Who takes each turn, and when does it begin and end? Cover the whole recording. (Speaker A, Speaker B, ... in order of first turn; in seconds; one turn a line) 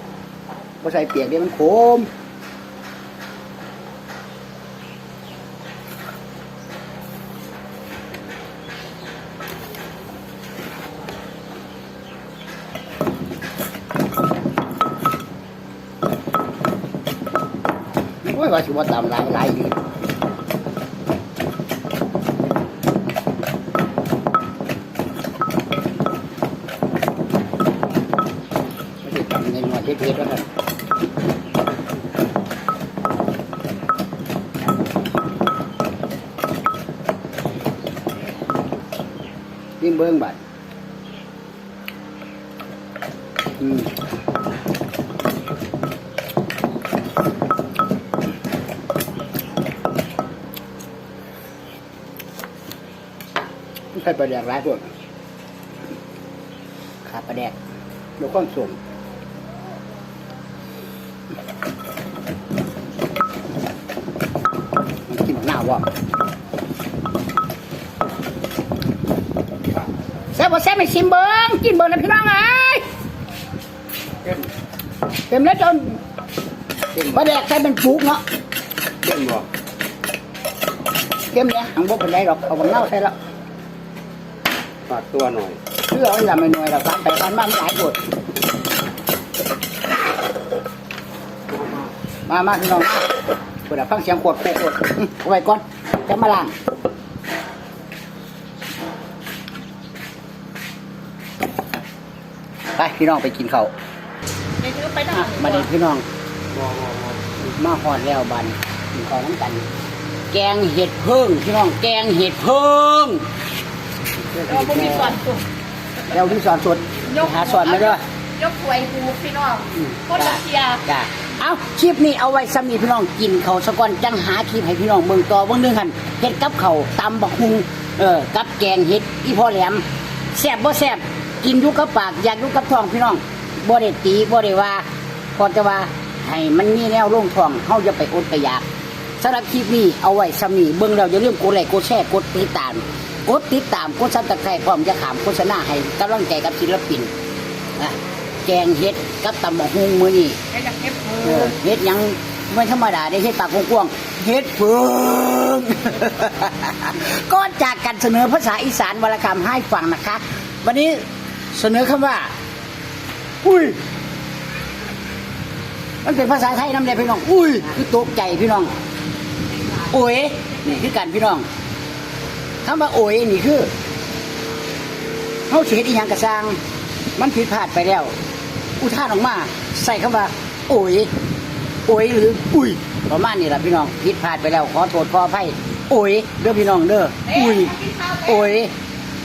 Speaker A: 0.8-2.1
Speaker A: 18.2-19.8
Speaker A: 29.0-30.5
Speaker A: 39.8-40.4
Speaker A: 43.6-43.9
Speaker A: 53.9-54.9
Speaker A: 57.0-57.5
Speaker A: 58.2-58.8
Speaker A: 65.1-65.9
Speaker A: 70.3-72.8
Speaker A: 75.3-76.0
Speaker A: 76.9-78.2
Speaker B: 79.0-79.5
Speaker A: 81.3-83.1
Speaker B: 84.9-85.6
Speaker A: 85.9-88.0
Speaker A: 92.3-93.1
Speaker A: 93.7-96.5
Speaker A: 102.7-103.7
Speaker C: 104.6-105.6
Speaker A: 105.1-106.0
Speaker B: 106.5-107.4
Speaker A: 107.4-109.7
Speaker A: 110.3-113.2
Speaker B: 114.4-114.9
Speaker C: 114.4-115.4
Speaker A: 114.7-115.0
Speaker A: 116.1-118.0
Speaker C: 117.1-120.8
Speaker A: 119.7-138.7
Speaker A: 139.2-147.1
Speaker A: 147.8-150.4
Speaker C: 150.5-151.5
Speaker A: 151.2-162.3
Speaker A: 163.4-163.8
Speaker A: 166.0-168.7
Speaker A: 169.8-171.5
Speaker A: 172.6-173.7
Speaker A: 175.5-176.6
Speaker A: 177.2-178.1
Speaker A: 178.8-181.1
Speaker A: 181.8-188.7
Speaker C: 187.4-188.2